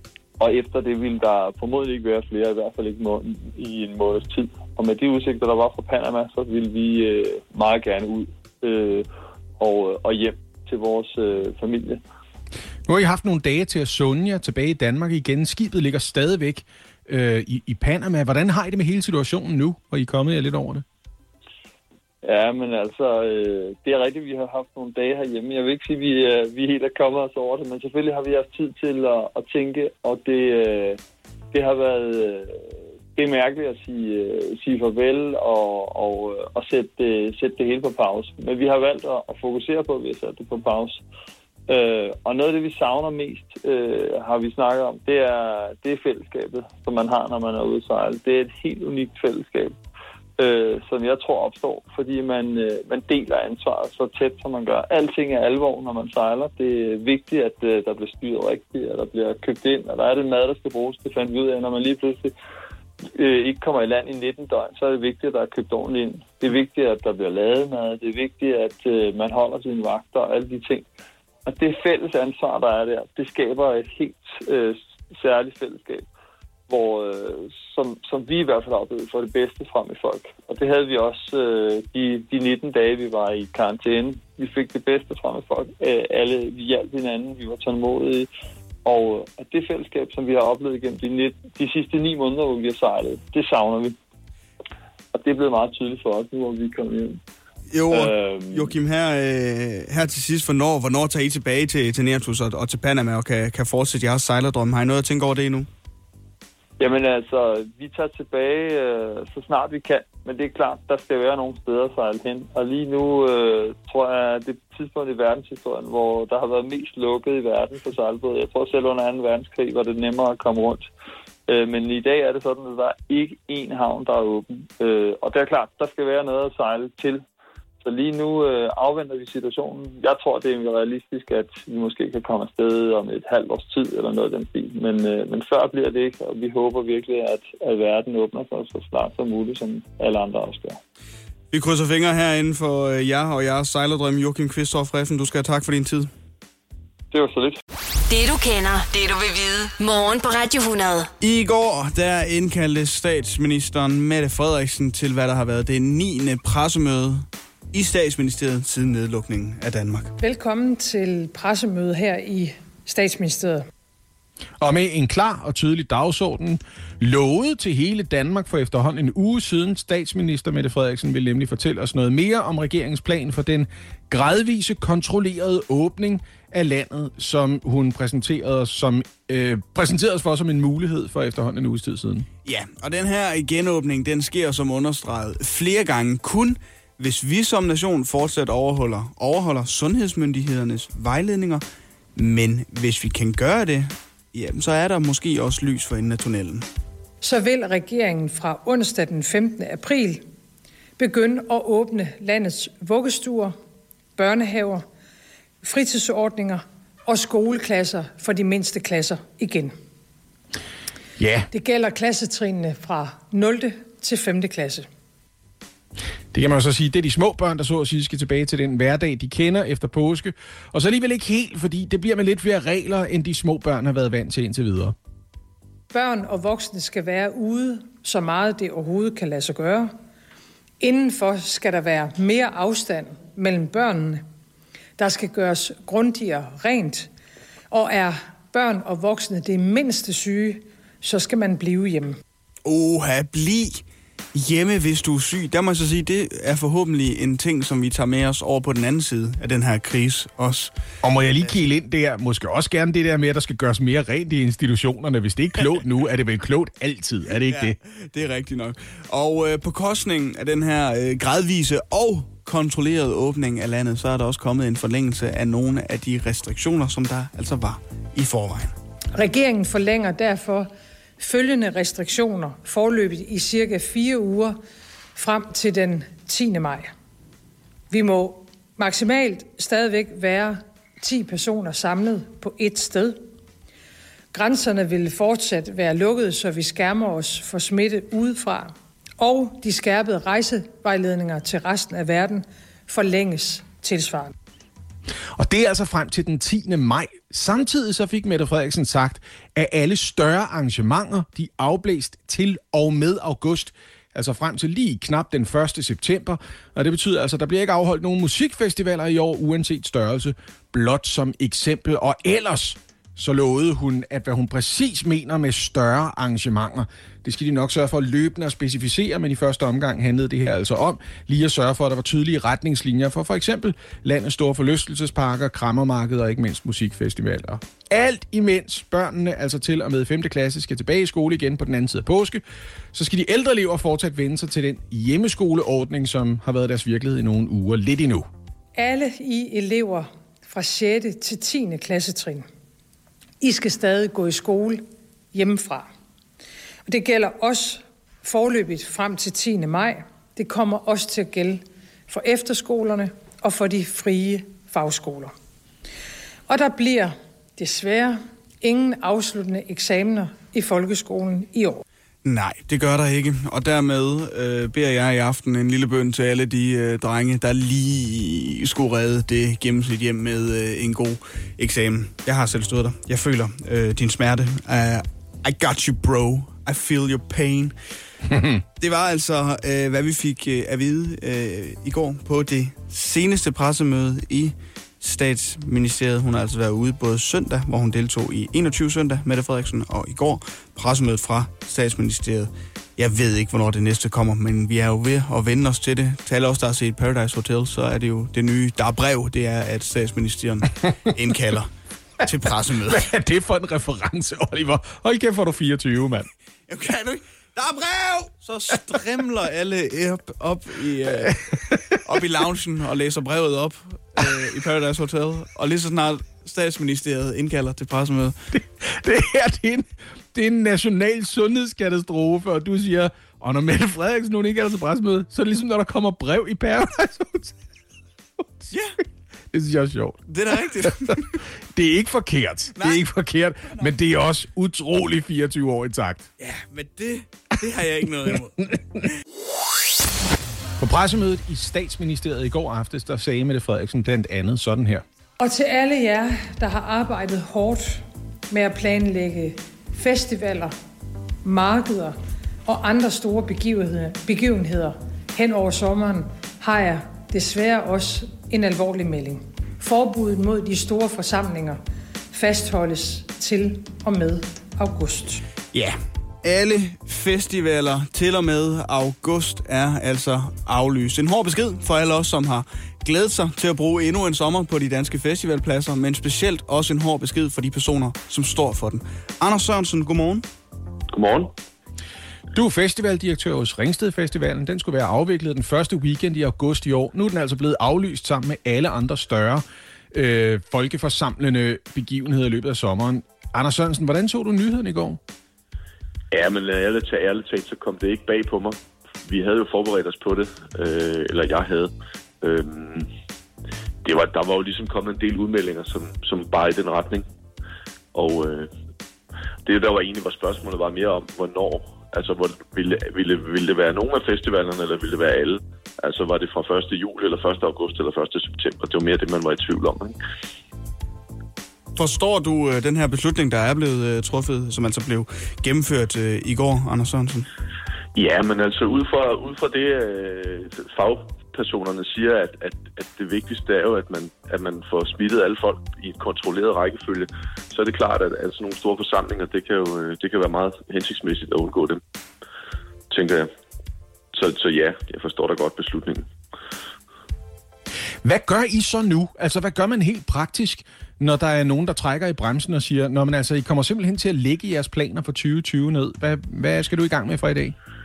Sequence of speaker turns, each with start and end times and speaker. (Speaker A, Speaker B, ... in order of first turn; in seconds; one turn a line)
Speaker A: 0.4-9.0
Speaker A: 9.6-12.0
Speaker B: 12.9-20.8
Speaker A: 22.2-31.0
Speaker A: 31.5-32.6
Speaker A: 33.1-41.0
Speaker A: 41.7-49.8
Speaker A: 50.4-62.3
Speaker A: 63.1-70.9
Speaker A: 71.5-76.0
Speaker A: 76.7-88.3
Speaker A: 88.8-94.0
Speaker A: 95.1-97.2
Speaker C: 97.7-105.7
Speaker A: 97.9-98.7
Speaker A: 106.8-120.9
Speaker A: 121.5-127.2
Speaker A: 127.8-140.8
Speaker C: 141.5-146.1
Speaker A: 147.1-147.6
Speaker D: 148.1-151.1
Speaker C: 151.2-160.1
Speaker E: 160.2-163.6
Speaker B: 164.6-182.3
Speaker C: 182.4-191.6
Speaker C: 192.2-196.7
Speaker E: 197.2-200.2
Speaker E: 201.0-203.5
Speaker E: 204.2-204.8
Speaker E: 205.6-209.7
Speaker B: 211.2-211.5
Speaker E: 211.5-214.9
Speaker B: 216.3-224.9
Speaker E: 225.9-229.9
Speaker E: 230.8-234.2
Speaker E: 235.0-237.1
Speaker E: 237.7-242.2
Speaker C: 242.6-243.8
Speaker C: 244.3-250.7
Speaker B: 251.0-257.8
Speaker C: 257.4-268.7
Speaker E: 269.1-274.6
Speaker E: 275.1-276.9
Speaker E: 277.9-283.2
Speaker E: 284.3-294.3
Speaker B: 295.3-332.4
Speaker B: 332.9-338.3
Speaker E: 338.8-342.4
Speaker E: 343.4-344.8
Speaker E: 345.3-345.9
Speaker E: 346.9-355.3
Speaker E: 356.5-361.8
Speaker C: 362.2-377.7
Speaker C: 378.8-401.7
Speaker C: 402.2-403.1
Speaker B: 402.8-406.3
Speaker C: 406.7-411.4
Speaker B: 411.1-412.2
Speaker C: 412.0-418.4
Speaker B: 418.5-427.6
Speaker C: 428.7-429.0
Speaker B: 429.5-431.1
Speaker C: 430.3-431.4
Speaker B: 431.7-436.3
Speaker C: 436.4-439.1
Speaker B: 440.8-445.0
Speaker E: 445.4-450.7
Speaker E: 451.4-452.1
Speaker E: 452.6-461.8
Speaker E: 462.3-465.4
Speaker C: 465.7-480.4
Speaker F: 481.1-481.5
Speaker B: 482.5-495.2
Speaker F: 496.3-501.9
Speaker F: 502.4-503.1
Speaker F: 504.0-507.2
Speaker F: 508.1-508.7
Speaker F: 509.6-520.2
Speaker C: 522.0-527.5
Speaker F: 528.1-542.0
Speaker F: 543.1-543.5
Speaker F: 544.3-546.3
Speaker B: 548.2-557.8